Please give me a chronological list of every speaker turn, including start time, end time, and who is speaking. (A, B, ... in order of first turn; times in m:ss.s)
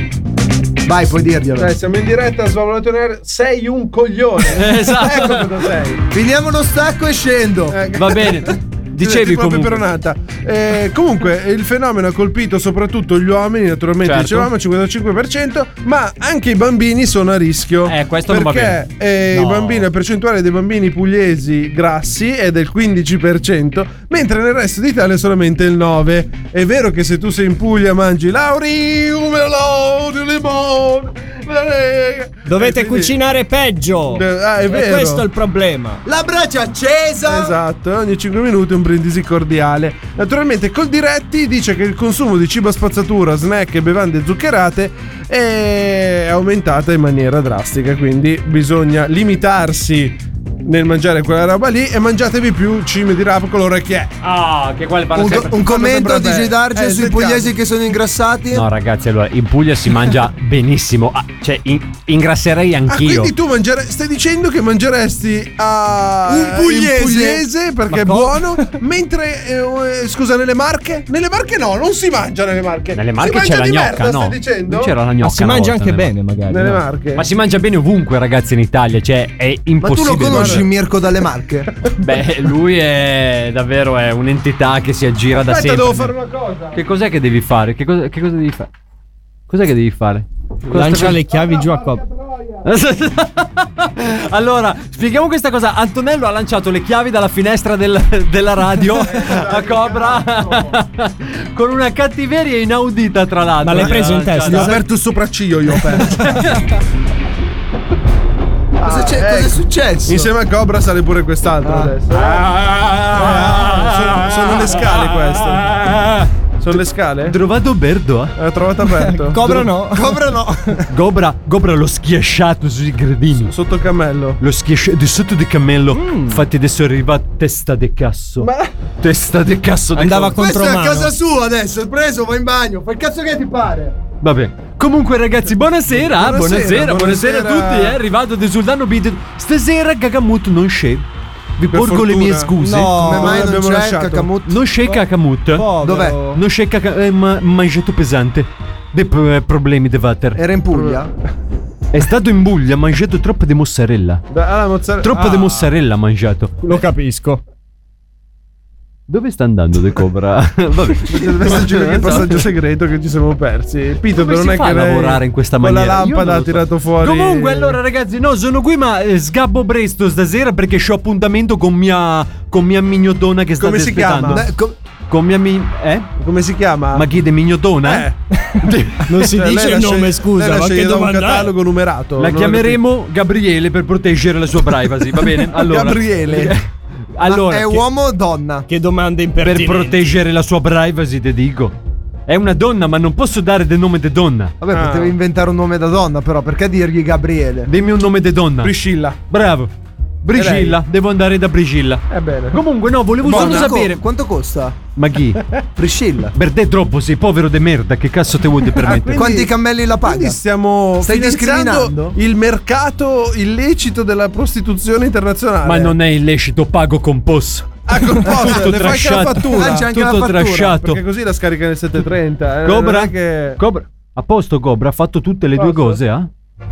0:00.8-0:01.7 A
0:01.6-0:06.0 B
0:04.5-0:05.4 C
0:06.1-0:07.8 A
0:07.7-0:33.2 B
0:08.0-0:09.8 C
0:14.0-0:14.5 C
0:17.8-0:18.8 C
0:19.3-0:19.9 C
0:32.5-0:36.0 D
0:34.1-0:35.3 B
0:36.1-0:37.6 A
0:37.2-0:54.1 B
0:54.2-0:55.6 C
0:55.2-0:58.7 A
0:55.4-0:57.5 B
0:58.5-1:03.3 C
1:02.9-1:15.0 B
1:06.3-1:07.4 A
1:07.9-1:08.6 D
1:13.0-1:16.1 C
1:15.2-1:16.8 D
1:16.5-1:17.2 B
1:17.2-1:20.7 C
1:19.8-1:21.7 A
1:20.1-1:20.7 B
1:22.0-1:26.1 C
1:25.3-1:26.8 B
1:26.7-1:28.7 C
1:29.5-1:31.2 C
1:30.7-1:32.0 D
1:31.1-1:32.7 B
1:32.6-1:44.8 C
1:38.9-1:40.7 B
1:43.6-1:44.8 D
1:44.4-1:46.5 B
1:48.8-1:50.3 A
1:48.8-1:55.8 B
1:52.2-1:56.3 C
1:56.6-1:57.4 B
1:57.2-1:58.3 C
1:58.4-1:59.7 B
1:59.0-2:00.2 D
1:59.9-2:00.8 A
2:00.9-2:03.5 C
2:03.4-2:04.4 B
2:04.4-2:08.5 C
2:06.0-2:06.4 D
2:08.4-2:08.7 B
2:09.0-2:10.4 C
2:10.0-2:11.1 D
2:10.4-2:14.0 A
2:14.2-2:21.0 C
2:15.9-2:18.0 B
2:21.6-2:23.3 C
2:21.7-2:24.3 B
2:22.7-2:23.2 D
2:22.7-2:24.6 A
2:24.5-2:30.4 C
2:24.9-2:26.4 D
2:25.8-2:26.3 A
2:30.4-2:31.1 A
2:30.7-2:31.0 B
2:31.9-2:34.2 C
2:34.3-2:35.7 B
2:35.0-2:36.5 C
2:36.6-2:37.4 D
2:39.1-2:42.4 C
2:41.1-2:47.8 B
2:44.2-2:54.5 C
2:53.6-2:54.5 B
2:54.3-2:54.8 A
2:55.1-2:56.1 C
2:56.2-2:57.1 B
2:56.9-2:58.1 C
2:57.8-2:58.2 B
2:58.6-2:59.2 C
2:59.1-3:01.5 D
2:59.2-3:02.8 B
3:02.2-3:06.6 C
3:05.5-3:06.6 B
3:07.2-3:07.8 C
3:07.2-3:08.7 A
3:08.7-3:10.0 D
3:09.4-3:11.7 C
3:12.3-3:14.5 C
3:14.6-3:17.7 A
3:14.7-3:15.2 B
3:17.7-3:19.7 C
3:18.6-3:19.2 B
3:20.2-3:24.0 C
3:20.3-3:20.8 B
3:22.1-3:22.6 B
3:23.2-3:23.8 B
3:23.2-3:24.8 A
3:25.0-3:25.4 C
3:25.8-3:26.3 A
3:26.4-3:29.3 C
3:28.8-3:29.5 B
3:29.1-3:30.4 A
3:30.0-3:35.9 B
3:31.0-3:32.2 A
3:35.6-3:41.0 C
3:37.9-3:39.9 B
3:39.5-3:40.8 A
3:40.8-3:43.6 B
3:42.6-3:46.3 C
3:45.6-3:46.0 B